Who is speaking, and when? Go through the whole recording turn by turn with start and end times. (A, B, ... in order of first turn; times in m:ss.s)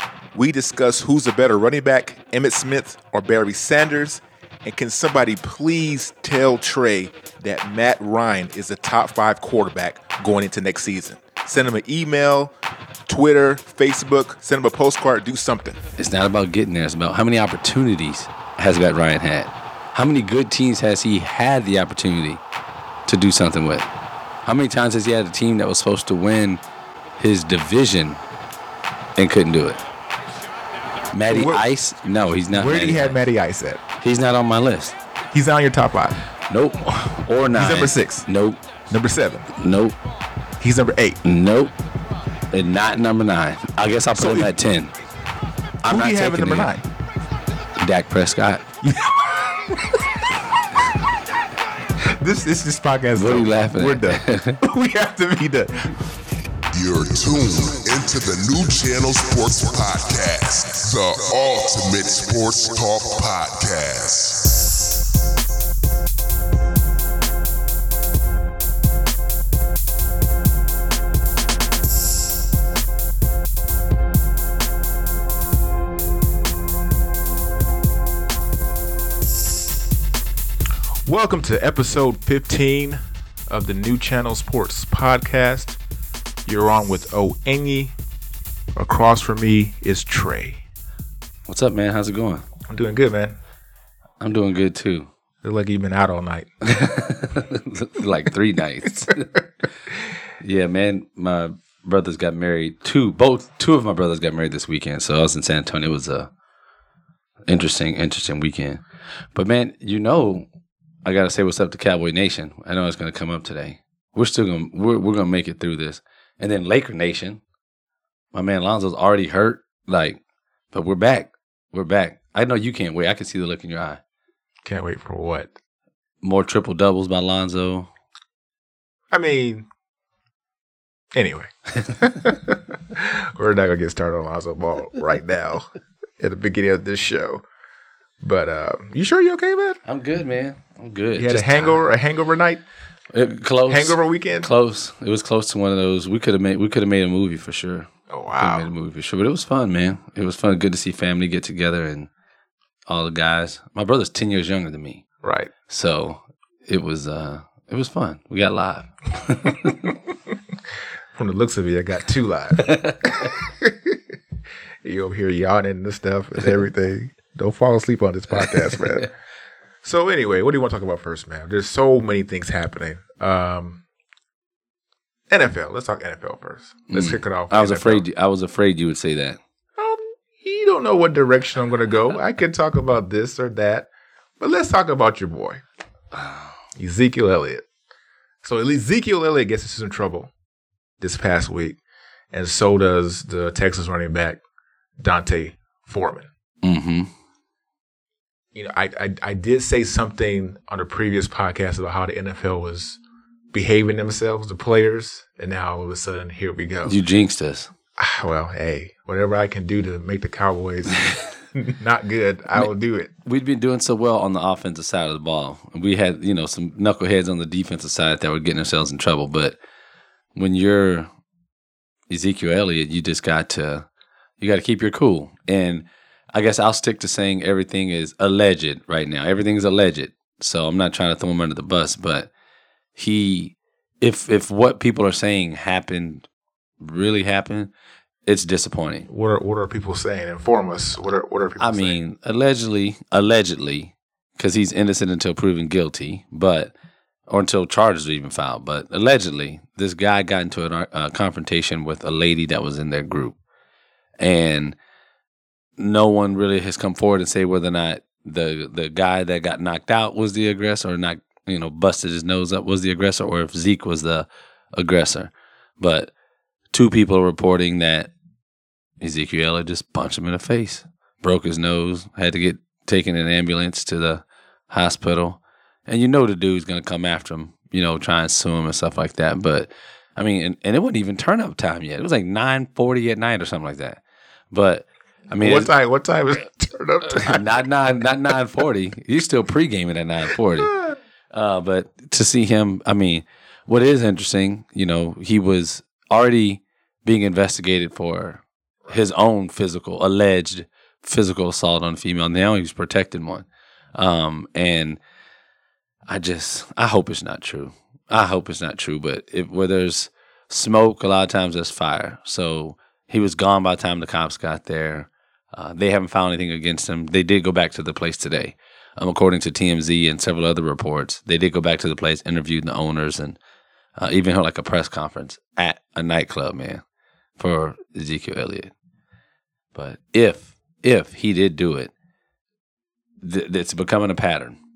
0:00.3-0:12.5 A
0:13.1-0:15.8 A
0:16.0-0:22.4 B
0:23.1-0:23.9 B
0:24.4-0:26.6 B
0:27.2-0:28.2 B
0:29.2-0:29.8 B
0:31.1-0:33.2 B
0:31.3-0:31.6 A
0:32.5-0:33.8 A
0:34.0-0:35.0 B
0:35.3-0:36.2 A
0:36.5-0:38.6 B
0:37.5-0:38.2 A
0:38.9-0:39.5 A
0:39.6-0:40.0 B
0:40.6-0:41.2 A
0:41.2-0:41.7 B
0:42.5-0:44.9 B
0:44.1-0:44.5 A
0:45.8-0:46.7 B
0:45.9-0:46.9 A
0:47.8-0:48.6 B
0:48.8-0:50.0 A
0:52.0-0:56.0 A
0:53.2-0:54.6 B
0:56.7-1:04.5 C
1:21.1-1:25.8 A
1:26.4-1:27.9 A
1:28.8-1:30.6 A
1:31.5-1:32.5 B
1:32.7-1:33.4 A
1:34.2-1:35.1 B
1:35.4-1:36.5 A
1:36.6-1:39.3 B
1:39.1-1:39.4 A
1:40.4-1:46.3 B
1:47.5-1:48.8 B
1:49.4-1:50.5 B
1:51.0-1:57.4 B
1:58.3-2:00.2 B
2:00.7-2:04.0 B
2:04.6-2:05.5 A
2:06.2-2:07.9 B
2:09.1-2:09.7 A
2:11.1-2:17.4 A
2:18.2-2:19.8 A
2:19.9-2:21.8 B
2:21.2-2:22.6 A
2:23.1-2:32.1 B
2:23.7-2:24.5 A
2:28.1-2:28.7 A
2:32.9-2:35.0 B
2:35.2-2:35.5 A
2:35.7-2:39.9 B
2:41.2-2:44.0 A
2:42.6-2:43.1 B
2:44.8-2:49.1 A
2:48.4-2:49.1 B
2:49.8-2:53.8 A
2:55.3-2:58.0 A
2:56.9-2:59.4 B
2:59.8-3:03.9 A
3:04.4-3:05.6 A
3:06.8-3:07.6 A
3:08.4-3:10.3 A
3:11.0-3:11.8 A
3:12.3-3:14.4 A
3:15.0-3:16.3 A
3:16.6-3:17.1 B
3:18.5-3:23.0 A
3:23.5-3:27.0 A
3:26.9-3:27.7 B
3:28.0-3:33.1 A
3:33.2-3:39.6 B
3:40.4-3:41.1 B
3:42.1-3:43.9 B
3:44.4-3:52.3 B
3:53.0-3:56.3 B
3:56.8-3:57.7 B
3:58.3-3:59.1 B
3:59.1-4:02.0 A
4:01.6-4:06.7 B
4:07.3-4:13.4 B
4:14.2-4:14.8 B
4:15.8-4:26.1 B
4:26.7-4:28.1 B
4:29.0-4:44.0 B
4:44.5-4:45.7 B
4:45.4-4:47.6 A
4:47.1-4:50.8 B
4:51.3-5:05.0 B
5:06.1-5:23.4 B
5:24.0-5:26.8 B
5:27.4-5:28.7 B
5:29.7-5:31.9 B
5:33.2-5:34.6 B